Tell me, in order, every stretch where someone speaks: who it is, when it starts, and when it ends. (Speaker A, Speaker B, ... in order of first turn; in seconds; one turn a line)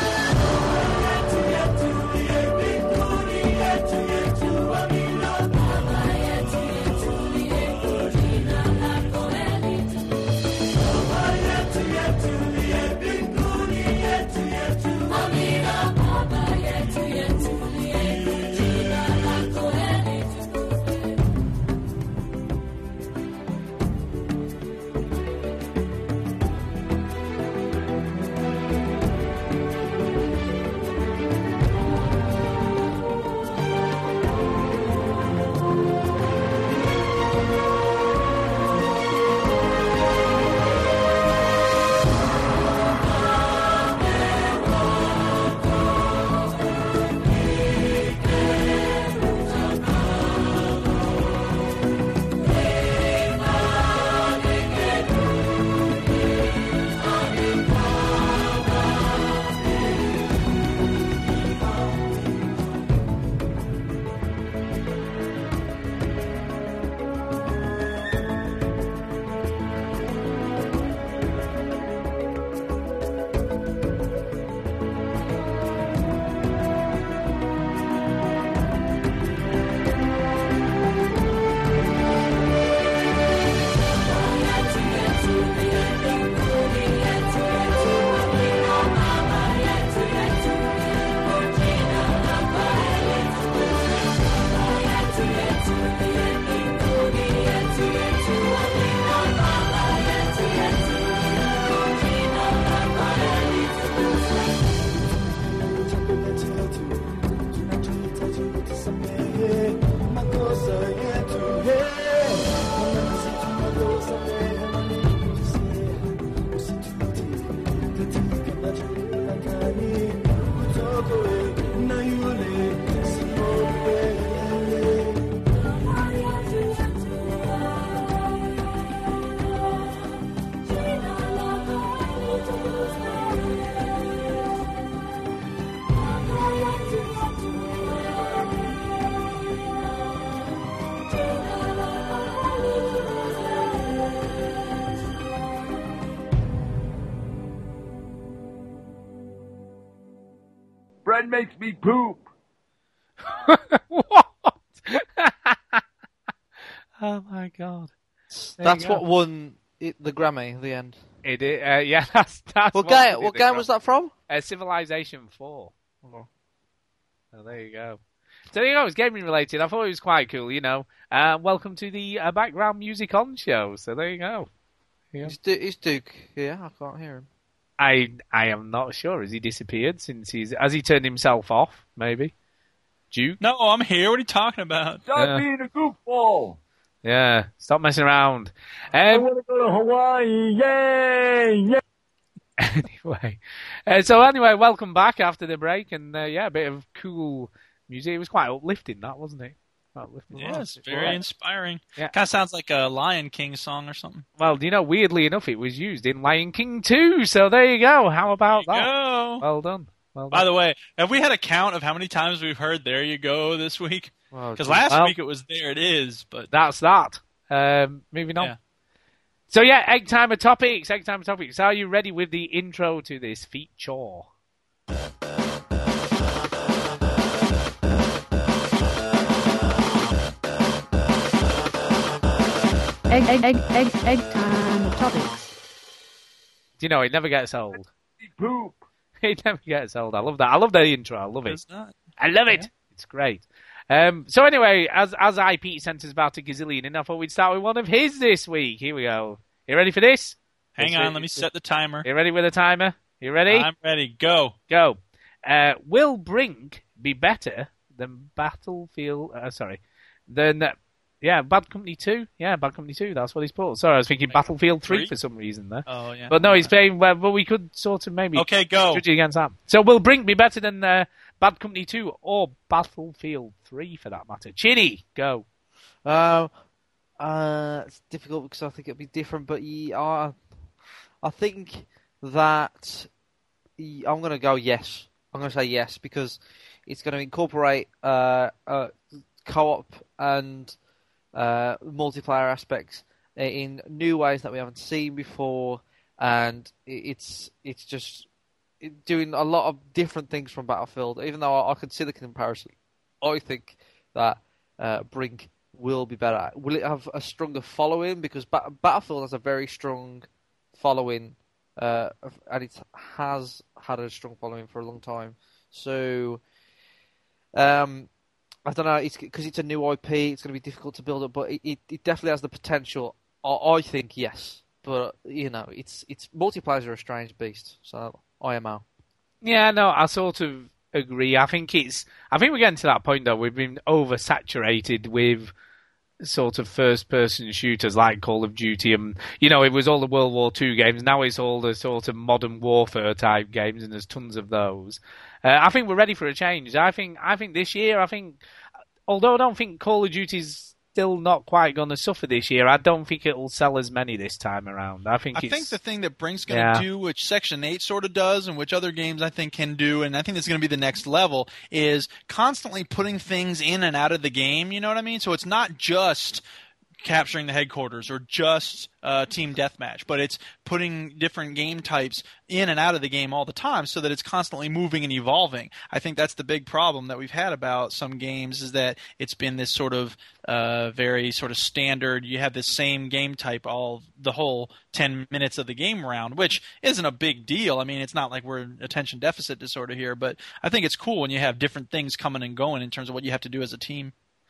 Speaker A: 151.1-152.3
Speaker B: 153.3-155.8
Speaker B: 157.0-157.9
Speaker C: 158.3-161.0
Speaker B: 158.6-159.0
Speaker B: 161.2-163.6
Speaker C: 162.7-164.1
Speaker B: 164.3-165.7
Speaker B: 167.3-168.0
Speaker B: 168.5-174.5
Speaker C: 175.2-177.3
Speaker B: 177.8-182.3
Speaker B: 183.1-183.4
Speaker D: 183.4-185.0
Speaker A: 185.1-186.6
Speaker B: 185.1-185.4
Speaker B: 187.0-189.3
Speaker A: 189.0-191.8
Speaker B: 192.6-201.2
Speaker D: 200.3-204.3
Speaker B: 204.4-210.4
Speaker D: 208.6-209.4
Speaker D: 210.3-216.5
Speaker C: 214.3-214.9
Speaker B: 214.9-215.1
Speaker B: 216.5-218.5
Speaker B: 219.5-224.3
Speaker E: 233.1-235.5
Speaker B: 236.8-237.9
Speaker A: 238.2-238.8
Speaker B: 239.2-241.6
Speaker D: 241.4-241.9
Speaker B: 242.2-251.4
Speaker D: 250.8-252.1
Speaker B: 252.0-253.7
Speaker D: 253.5-254.6
Speaker B: 254.7-275.4
Speaker D: 264.3-265.1
Speaker D: 265.9-266.7
Speaker D: 268.4-269.0
Speaker C: 276.1-276.5
Speaker C: 277.2-280.4
Speaker C: 281.2-283.1
Speaker C: 283.8-288.9
Speaker C: 289.4-290.8
Speaker C: 291.3-298.3
Speaker C: 298.8-316.4
Speaker C: 317.5-318.1
Speaker C: 318.6-328.8
Speaker B: 329.4-335.5
Speaker B: 336.2-348.4
Speaker B: 349.1-355.7
Speaker D: 355.3-366.4
Speaker B: 356.5-356.9
Speaker D: 367.0-394.1